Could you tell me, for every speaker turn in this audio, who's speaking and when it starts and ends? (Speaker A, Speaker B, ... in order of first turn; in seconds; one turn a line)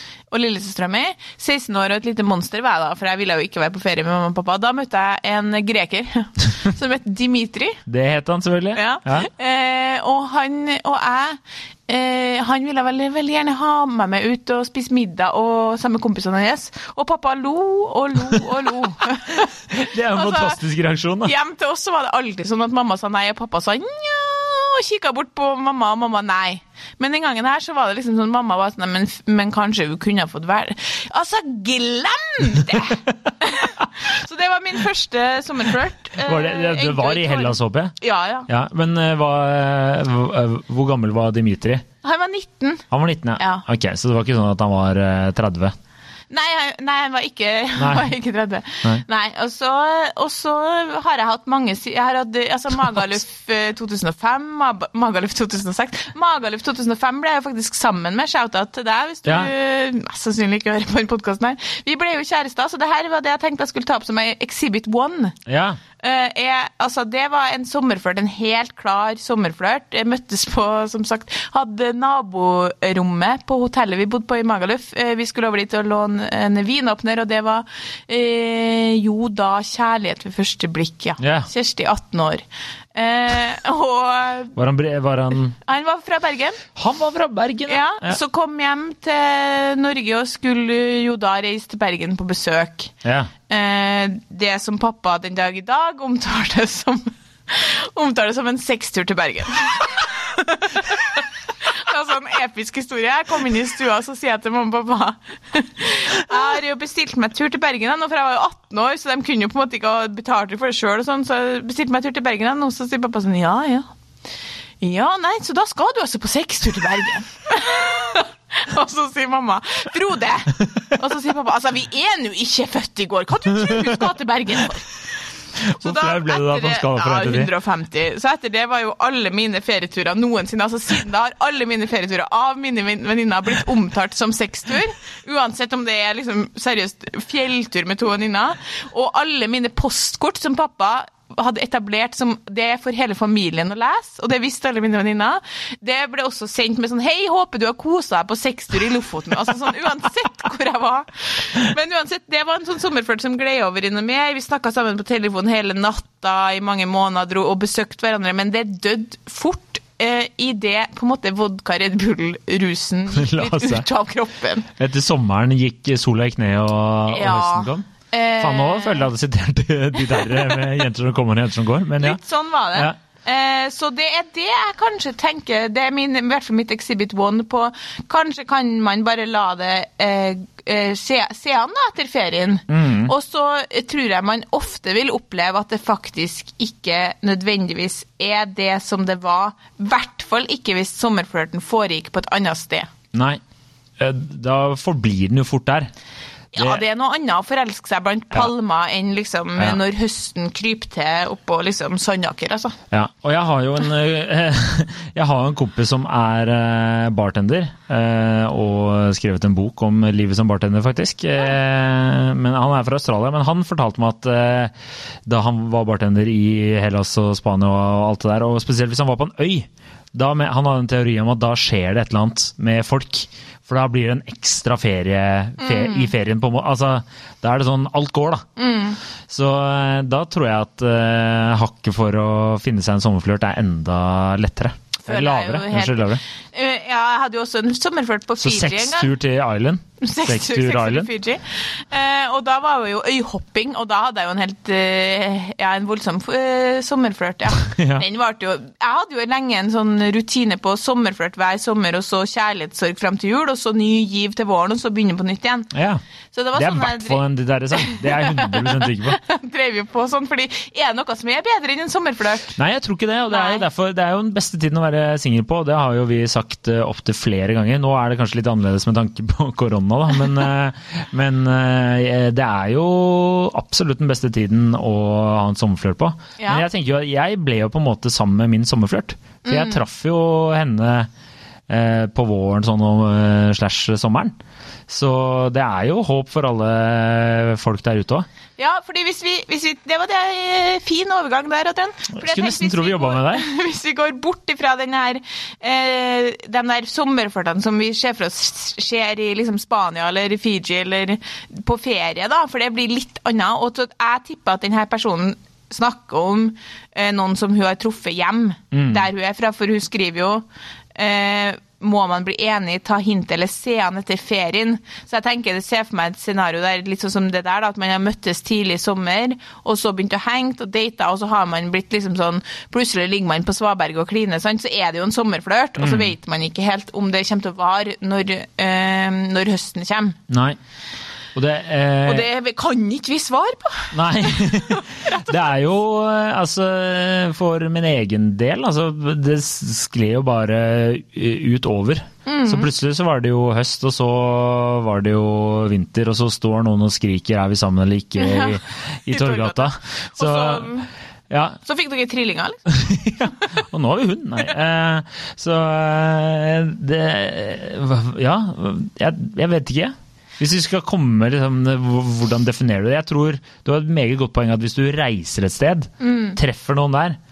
Speaker A: 0.3-7.8
Speaker B: 7.8-9.3
Speaker A: 8.7-19.5
Speaker B: 19.7-21.3
Speaker A: 20.1-20.6
Speaker A: 21.2-38.5
Speaker B: 36.2-38.0
Speaker B: 38.5-41.8
Speaker A: 42.0-42.8
Speaker B: 42.9-45.7
Speaker A: 43.4-43.6
Speaker A: 46.3-65.3
Speaker B: 47.8-48.1
Speaker B: 59.2-59.5
Speaker B: 65.5-65.8
Speaker A: 66.0-84.5
Speaker B: 81.2-81.5
Speaker B: 84.5-85.5
Speaker A: 85.6-86.6
Speaker B: 86.8-88.2
Speaker A: 87.7-92.9
Speaker B: 93.0-93.3
Speaker A: 93.5-113.9
Speaker A: 114.8-125.0
Speaker B: 123.5-123.9
Speaker B: 125.6-127.5
Speaker A: 125.8-164.7
Speaker B: 163.1-163.8
Speaker B: 164.8-167.9
Speaker A: 167.1-169.1
Speaker B: 168.4-172.2
Speaker A: 170.1-170.7
Speaker A: 172.0-192.9
Speaker B: 182.7-183.1
Speaker B: 193.1-193.4
Speaker B: 194.0-195.9
Speaker A: 196.5-202.7
Speaker B: 196.6-196.8
Speaker B: 202.9-214.7
Speaker B: 215.2-228.4
Speaker A: 225.6-226.1
Speaker A: 228.6-229.0
Speaker B: 229.3-236.2
Speaker A: 235.0-239.1
Speaker B: 238.4-241.1
Speaker A: 240.0-255.7
Speaker B: 247.7-248.0
Speaker B: 255.7-256.0
Speaker A: 256.3-262.6
Speaker B: 256.5-259.2
Speaker B: 262.6-281.1
Speaker A: 263.3-263.6
Speaker A: 276.4-276.6
Speaker A: 279.4-279.8
Speaker B: 281.7-284.4
Speaker B: 284.9-288.3
Speaker A: 288.6-330.2
Speaker B: 292.1-293.4
Speaker B: 308.7-309.1
Speaker B: 325.8-326.1
Speaker B: 330.3-330.6
Speaker B: 331.3-332.3
Speaker A: 332.0-335.3
Speaker B: 333.9-350.7
Speaker A: 342.2-342.7
Speaker A: 348.2-350.9
Speaker B: 351.3-351.6
Speaker A: 351.6-352.6
Speaker B: 352.7-367.2
Speaker A: 366.0-366.4